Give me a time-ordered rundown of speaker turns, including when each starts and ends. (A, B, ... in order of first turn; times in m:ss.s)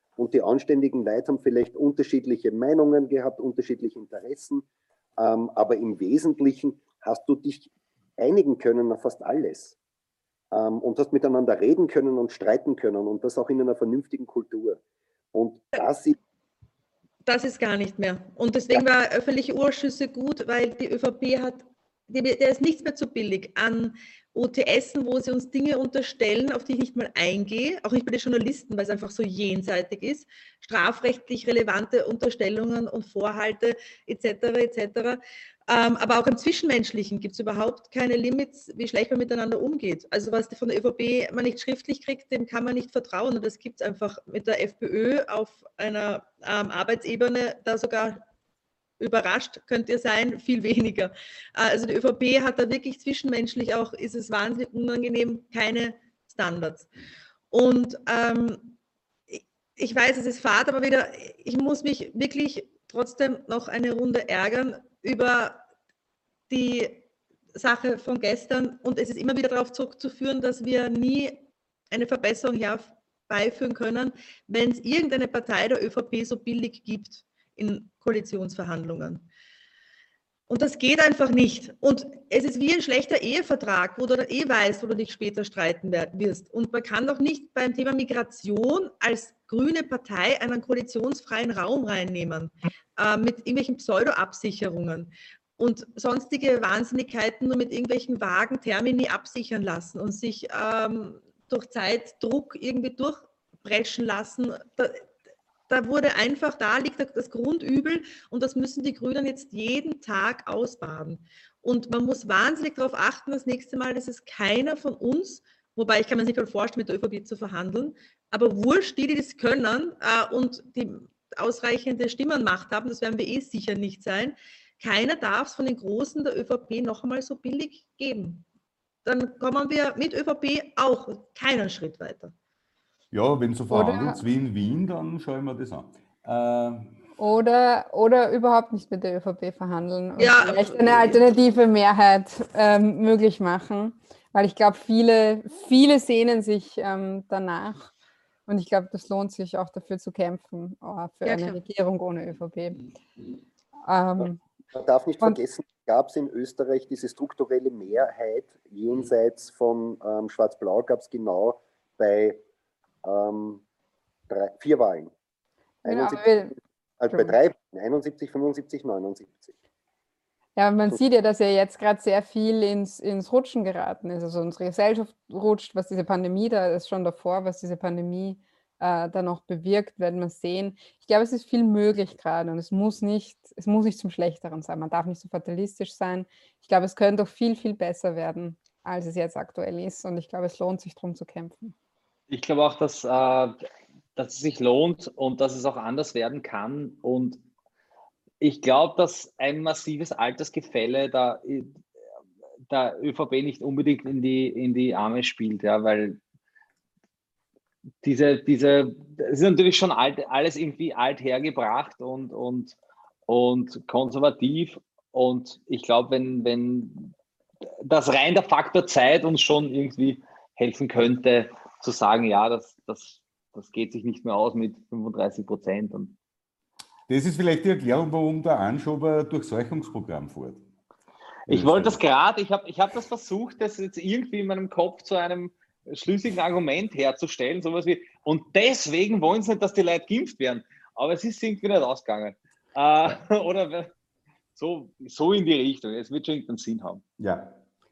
0:00.2-0:04.6 A
0:05.2-0:09.8 A
0:10.5-0:14.8 A
0:15.3-0:16.2 A
0:17.2-0:48.2 B
0:49.0-0:56.9 B
0:57.5-0:58.8 B
0:59.3-1:05.6 B
1:06.5-1:07.0 B
1:07.5-1:19.3 B
1:20.5-1:45.1 B
1:45.7-2:08.4 B
2:09.0-2:12.3 B
2:13.1-2:16.9 C
2:13.7-2:14.2 D
2:17.2-2:27.9 D
2:20.2-2:21.2 B
2:28.5-2:32.8 D
2:31.2-2:31.6 B
2:33.8-2:34.4 D
2:34.2-2:42.4 A
2:43.0-2:43.6 A
2:44.3-2:45.1 A
2:45.8-2:46.5 D
2:45.8-2:49.6 A
2:47.1-2:47.4 D
2:50.6-3:11.7 D
3:12.3-3:13.6 E
3:14.2-3:17.4 E
3:18.4-3:21.8 E
3:22.7-3:26.2 E
3:28.0-3:32.7 E
3:33.3-3:37.1 E
3:37.8-3:46.2 E
3:47.1-3:50.6 C
3:51.5-4:03.9 E
3:51.5-3:52.0 C
4:04.6-4:07.0 E
4:07.2-4:07.5 C